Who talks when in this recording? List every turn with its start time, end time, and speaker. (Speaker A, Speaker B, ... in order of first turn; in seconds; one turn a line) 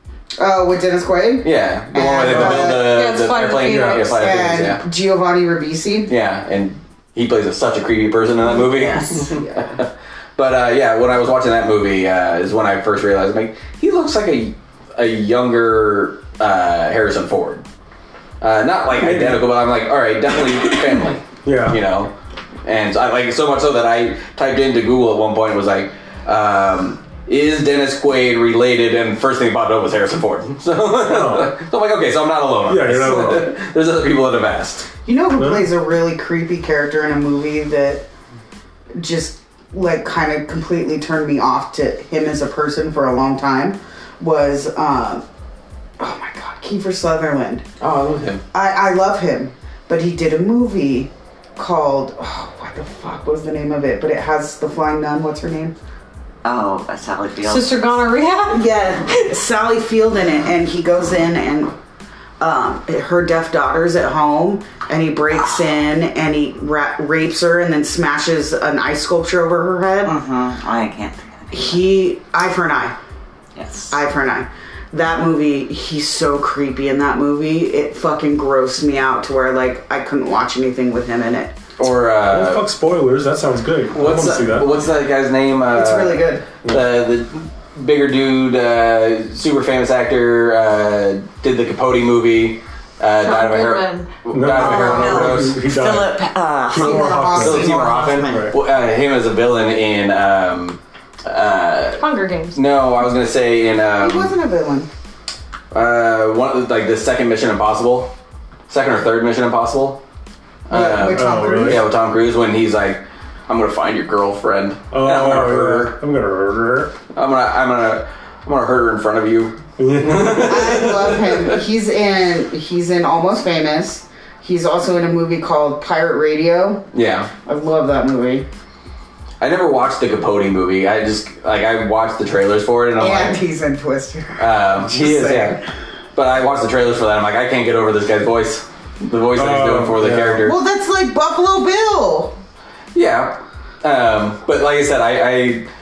Speaker A: 0.4-3.0
Speaker B: 1.4-4.8
Speaker C: 2.3-2.8
Speaker D: 2.8-4.2
Speaker A: 3.9-6.1
Speaker B: 6.1-17.6
Speaker E: 8.5-9.4
Speaker A: 9.2-9.7
Speaker B: 18.4-22.1
Speaker C: 19.0-19.4
Speaker C: 21.4-21.8
Speaker B: 22.6-34.9
Speaker C: 31.1-31.5
Speaker C: 32.7-33.5
Speaker A: 35.0-38.0
Speaker C: 35.4-35.7
Speaker A: 39.0-45.2
Speaker A: 46.0-47.6
Speaker B: 47.8-48.4
Speaker A: 48.5-55.7
Speaker E: 56.4-57.7
Speaker D: 57.4-59.3
Speaker A: 58.5-61.7
Speaker A: 62.4-70.2
Speaker E: 70.0-71.8
Speaker A: 71.5-73.0
Speaker E: 73.5-73.9
Speaker A: 73.9-81.5
Speaker B: 81.8-82.7
Speaker C: 82.3-84.7
Speaker B: 83.9-95.6
Speaker A: 85.7-86.5
Speaker D: 93.2-94.1
Speaker C: 94.3-96.1
Speaker E: 94.5-98.5
Speaker C: 96.7-97.7
Speaker A: 96.7-97.7
Speaker B: 96.7-102.0
Speaker C: 98.2-98.5
Speaker D: 102.0-102.6
Speaker B: 102.5-104.3
Speaker A: 104.0-104.9
Speaker B: 105.7-108.1
Speaker B: 108.7-110.0
Speaker B: 110.7-116.0
Speaker A: 110.7-111.9
Speaker C: 111.1-111.8
Speaker C: 114.9-116.9
Speaker B: 117.1-121.6
Speaker C: 119.8-120.9
Speaker A: 120.4-126.8
Speaker B: 126.9-127.3
Speaker A: 127.4-128.4
Speaker B: 129.4-133.4
Speaker A: 133.0-135.6
Speaker B: 134.4-135.6
Speaker B: 136.2-140.6
Speaker C: 139.3-140.4
Speaker A: 140.4-142.3
Speaker B: 142.9-145.7